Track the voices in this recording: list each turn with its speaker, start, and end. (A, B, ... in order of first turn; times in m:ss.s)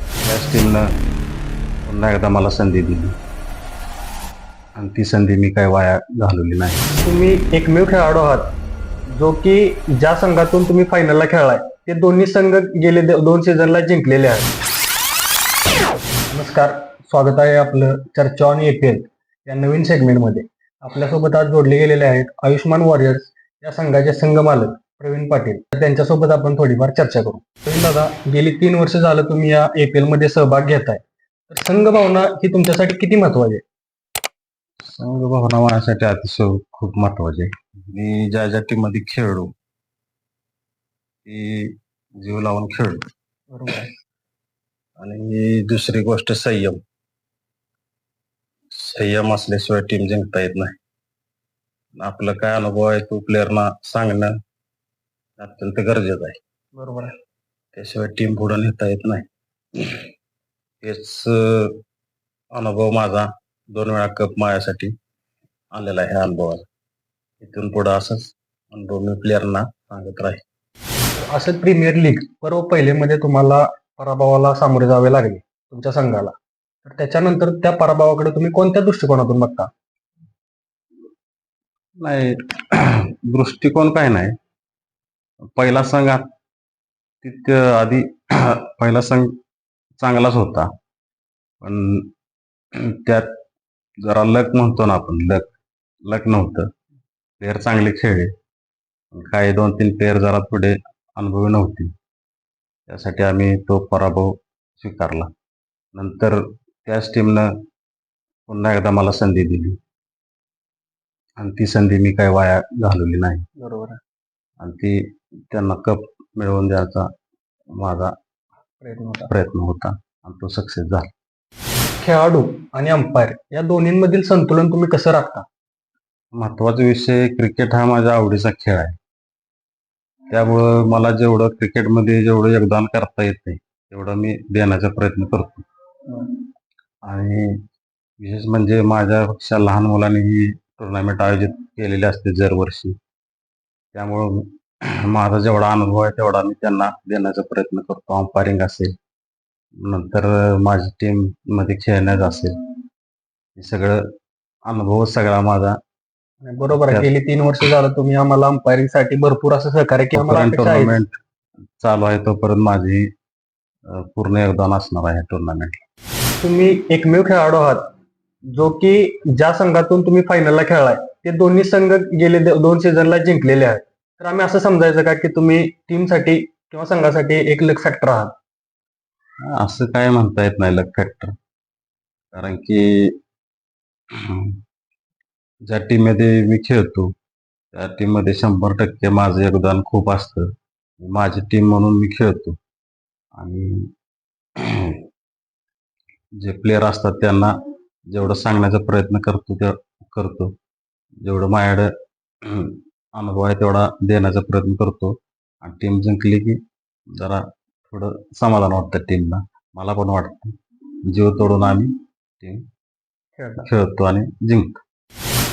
0:00.2-0:00.8 A
0:01.9-0:03.2 A
0:04.8-0:06.9 A
0:07.0-0:08.4 B
0:09.2-0:14.5 B
0:16.3-0:33.6 B
0:34.8-0:39.5 A
0:41.3-0:43.0 A
0:43.5-0:43.9 B
0:45.0-0:46.8 A
0:48.7-0:50.7 A
0:52.0-0:54.3 A
0:55.4-0:56.4 A
0:56.8-0:57.1 B
0:57.8-0:59.2 A
0:59.8-1:00.1 A
1:00.8-1:01.8 A
1:02.5-1:04.9 A
1:05.7-1:06.6 A
1:07.4-1:10.4 A
1:11.2-1:19.7 B
1:22.0-1:24.4 A
1:25.6-1:26.2 A
1:27.2-1:29.3 A
1:30.0-1:30.7 A
1:31.6-1:32.1 A
1:32.8-1:33.3 A
1:34.0-1:35.5 A
1:36.1-1:36.7 A
1:37.4-1:38.3 A
1:39.1-1:41.9 A
1:42.9-1:45.3 A
1:46.0-1:47.5 A
1:48.5-1:49.8 A
1:51.4-1:53.4 A
1:53.6-1:54.0 B
1:54.6-1:55.0 A
1:55.5-1:57.1 A
1:57.8-1:58.1 A
1:58.8-1:59.3 B
1:59.3-2:01.1 A
2:02.0-2:05.5 B
2:06.3-2:09.0 A
2:10.3-2:15.7 A
2:17.1-2:17.6 A
2:18.2-2:23.0 A
2:24.0-2:28.9 A
2:29.8-2:32.5 A
2:33.6-2:34.0 A
2:34.7-2:35.8 A
2:36.4-2:41.0 B
2:36.7-2:37.1 A
2:40.1-2:41.2 A
2:41.8-2:43.1 A
2:44.0-2:45.8 A
2:46.4-2:47.8 B
2:48.5-2:58.3 B
2:59.4-3:01.3 A
3:02.3-3:03.1 A
3:04.2-3:04.6 A
3:05.7-3:07.1 A
3:07.7-3:10.5 A
3:11.0-3:12.6 A
3:13.4-3:13.9 A
3:14.6-3:15.0 A
3:16.4-3:17.6 A
3:18.1-3:20.5 A
3:21.2-3:21.9 A
3:22.4-3:26.6 A
3:27.2-3:30.5 A
3:31.1-3:32.6 A
3:33.4-3:33.7 B
3:33.6-3:34.8 A